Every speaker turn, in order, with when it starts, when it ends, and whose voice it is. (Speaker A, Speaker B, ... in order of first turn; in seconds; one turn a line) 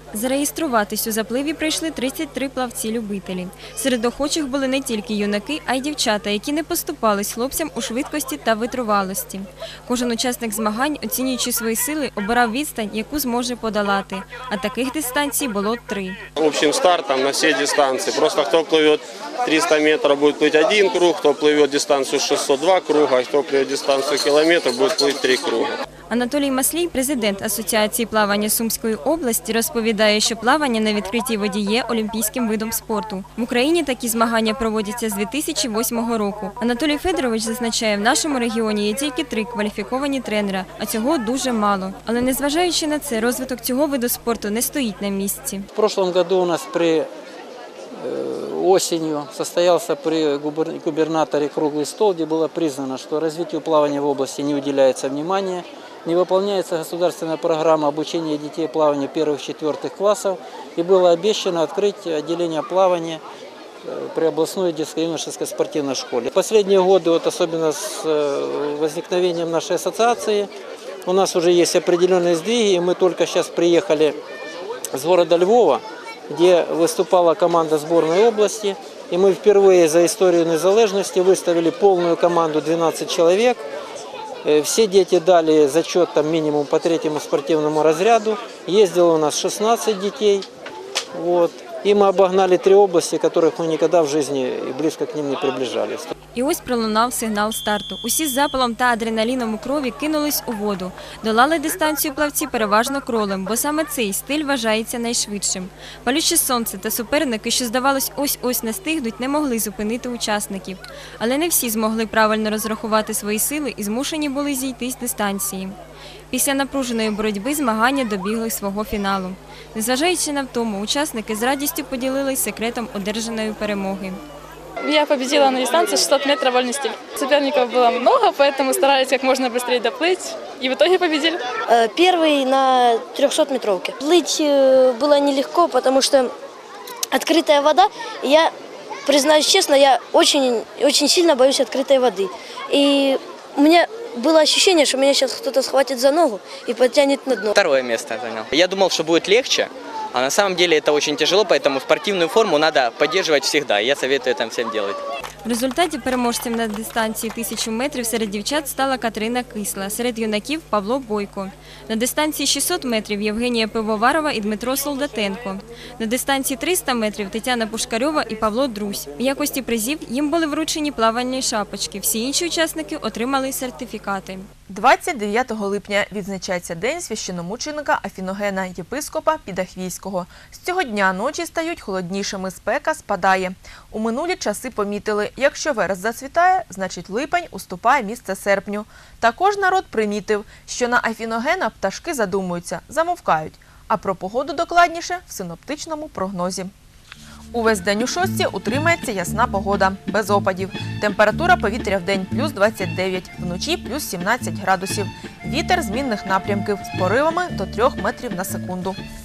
Speaker A: 0.1-16.2
Speaker B: 16.4-25.8
Speaker A: 26.1-45.7
Speaker C: 45.7-47.1
Speaker C: 48.0-63.2
Speaker C: 63.9-70.5
Speaker C: 71.1-74.2
Speaker C: 74.9-83.6
Speaker C: 84.4-90.5
Speaker C: 91.1-96.1
Speaker A: 96.3-115.8
Speaker A: 116.3-124.2
Speaker D: 124.8-131.4
Speaker E: 131.7-136.3
Speaker E: 137.1-138.5
Speaker E: 139.1-147.5
Speaker F: 147.7-148.1
Speaker F: 148.6-149.5
Speaker F: 150.2-154.9
Speaker A: 155.4-174.5
Speaker G: 174.7-196.7
Speaker G: 197.5-209.0